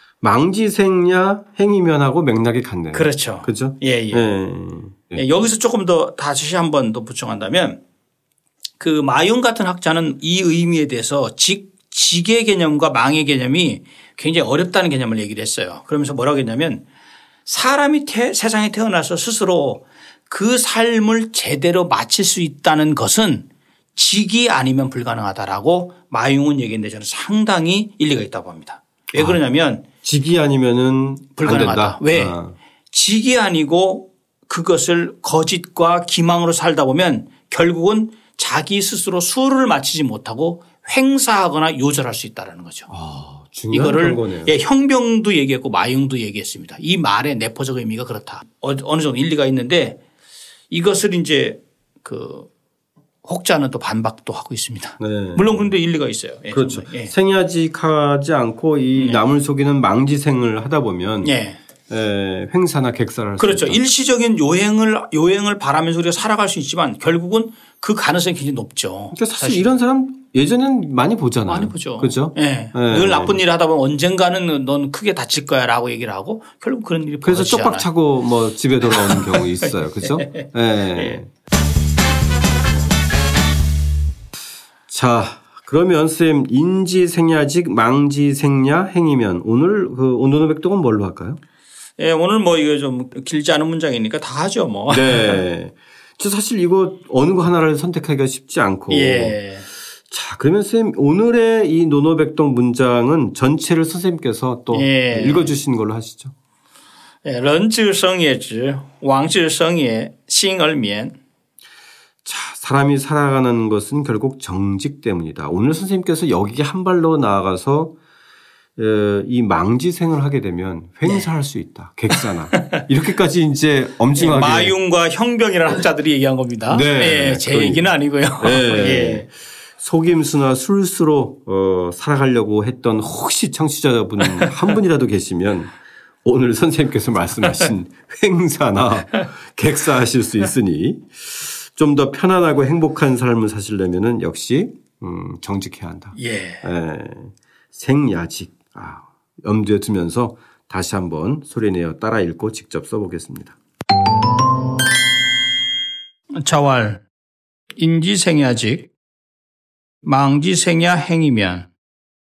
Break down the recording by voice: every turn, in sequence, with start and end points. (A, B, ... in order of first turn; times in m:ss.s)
0:00.2-0:05.2 A
0:02.9-0:04.2 B
0:05.1-0:07.8 B
0:08.8-0:16.8 B
0:17.4-0:29.8 B
0:29.1-0:29.4 A
0:30.0-0:32.6 A
0:31.4-0:32.4 B
0:32.9-0:42.9 B
0:42.9-0:44.5 A
0:43.7-0:50.0 B
0:50.7-0:52.5 B
0:53.2-0:57.1 B
0:55.0-0:55.7 A
0:56.5-1:01.3 A
0:59.0-0:59.2 B
1:01.2-1:01.6 B
1:01.9-1:03.8 A
1:03.4-1:09.8 B
1:09.1-1:13.4 A
1:11.5-1:17.9 B
1:17.2-1:21.3 A
1:18.9-1:19.4 B
1:20.0-1:20.3 B
1:24.9-1:31.4 A
1:32.0-1:35.4 B
1:34.9-1:39.4 A
1:38.9-1:39.7 B
1:40.1-1:46.3 A
1:44.7-1:45.5 B
1:47.2-1:51.2 B
1:52.2-1:58.0 A
1:58.8-2:04.7 A
2:04.2-2:09.2 B
2:06.7-2:15.7 A
2:16.2-2:33.6 A
2:26.2-2:26.7 B
2:36.3-2:37.0 B
2:37.8-2:38.9 B
2:40.0-2:41.7 B